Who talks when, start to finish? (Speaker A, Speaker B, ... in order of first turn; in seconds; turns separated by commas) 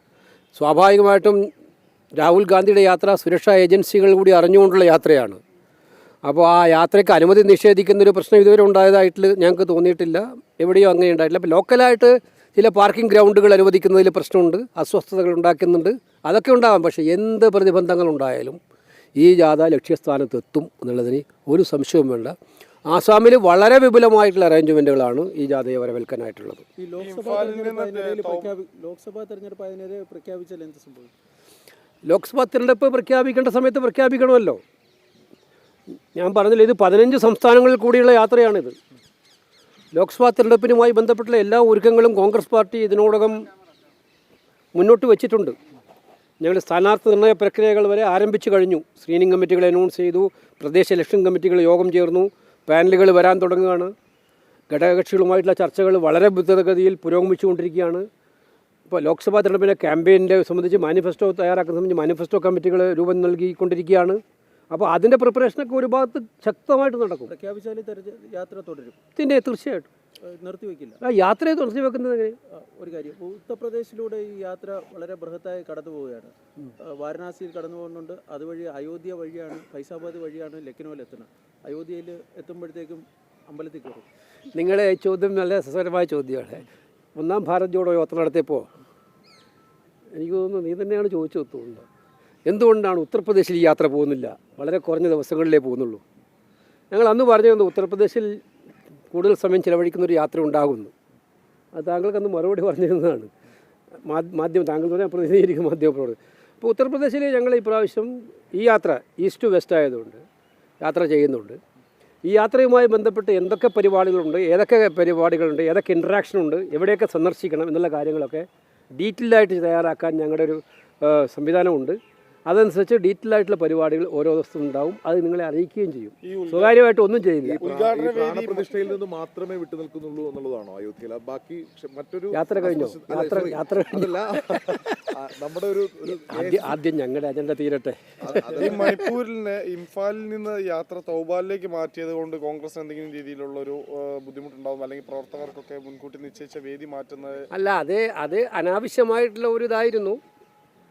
Speaker A: 0.6-1.4, Speaker A: 2.2-5.4, Speaker A: 6.2-18.6, Speaker A: 19.2-22.4, Speaker A: 22.9-26.6, Speaker B: 26.8-31.1, Speaker C: 27.0-28.5, Speaker A: 32.0-34.6, Speaker A: 36.1-38.8, Speaker A: 39.9-43.4, Speaker A: 44.7-45.6, Speaker A: 46.4-53.9, Speaker A: 54.7-58.1, Speaker A: 58.9-64.2, Speaker A: 64.7-67.3, Speaker B: 67.3-69.0, Speaker A: 69.2-69.9, Speaker B: 70.3-71.0, Speaker A: 71.0-72.4, Speaker B: 72.6-84.1, Speaker A: 84.5-86.6, Speaker A: 87.2-88.7, Speaker A: 90.2-91.9, Speaker A: 92.5-96.0, Speaker A: 96.9-98.4, Speaker A: 99.1-100.9, Speaker A: 101.8-103.3, Speaker A: 104.1-110.2, Speaker A: 110.8-111.6, Speaker A: 112.2-127.6, Speaker C: 126.2-126.8, Speaker D: 127.4-136.8, Speaker C: 127.6-128.8, Speaker A: 132.3-135.1, Speaker A: 136.2-138.9, Speaker D: 138.2-138.9, Speaker C: 138.5-147.5, Speaker A: 147.5-150.2